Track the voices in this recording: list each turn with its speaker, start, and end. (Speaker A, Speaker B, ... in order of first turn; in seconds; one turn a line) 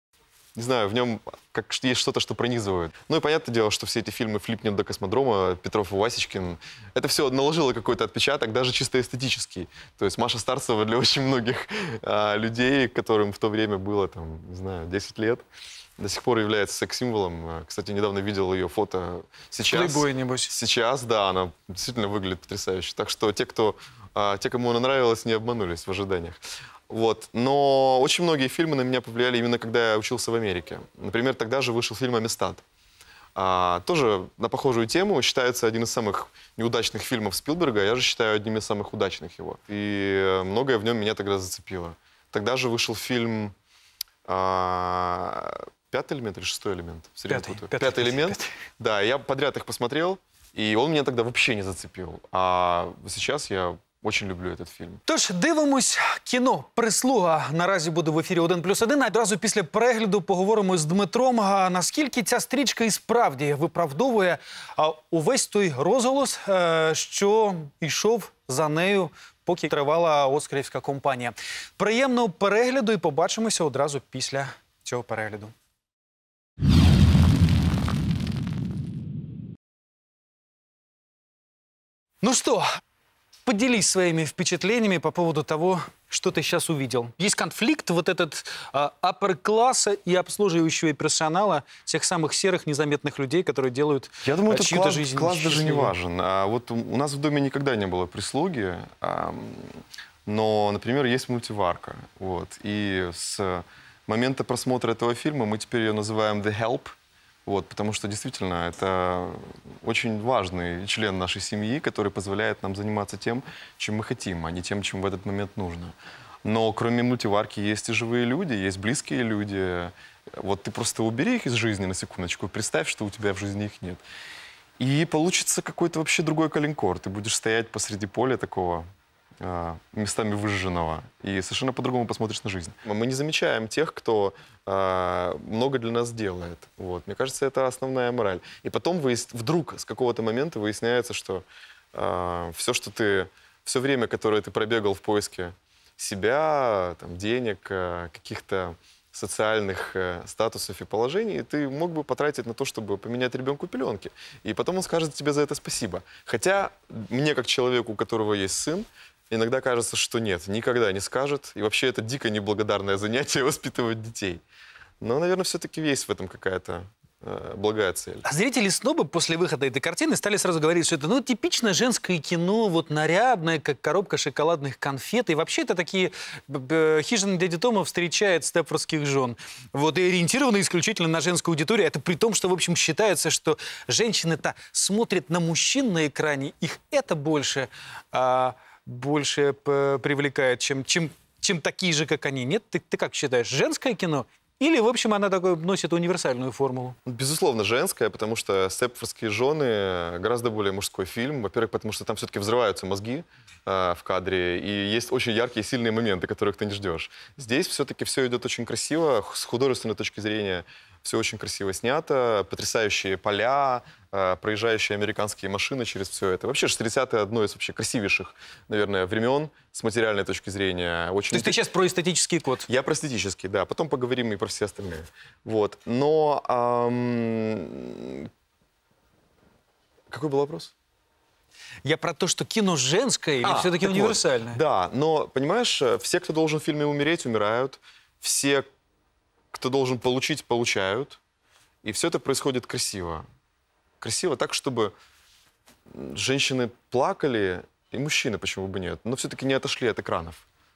Speaker A: 0.6-15.4
Speaker A: 16.0-32.6
Speaker B: 19.7-20.5
Speaker A: 33.4-43.5
Speaker A: 44.3-55.0
Speaker B: 47.3-48.5
Speaker B: 55.1-75.5
Speaker B: 82.2-82.7
Speaker B: 83.5-96.0
Speaker A: 94.2-106.9
Speaker A: 107.5-124.0
Speaker A: 124.8-128.9
Speaker A: 129.4-164.4
Speaker A: 165.0-168.2
Speaker B: 168.2-197.0
Speaker A: 197.1-221.6
Speaker B: 221.3-222.7
Speaker A: 222.7-228.3
Speaker A: 230.1-230.7
Speaker B: 231.8-234.6
Speaker A: 233.4-238.7
Speaker A: 239.5-241.2
Speaker A: 241.8-243.2
Speaker A: 244.0-244.9
Speaker A: 245.9-250.4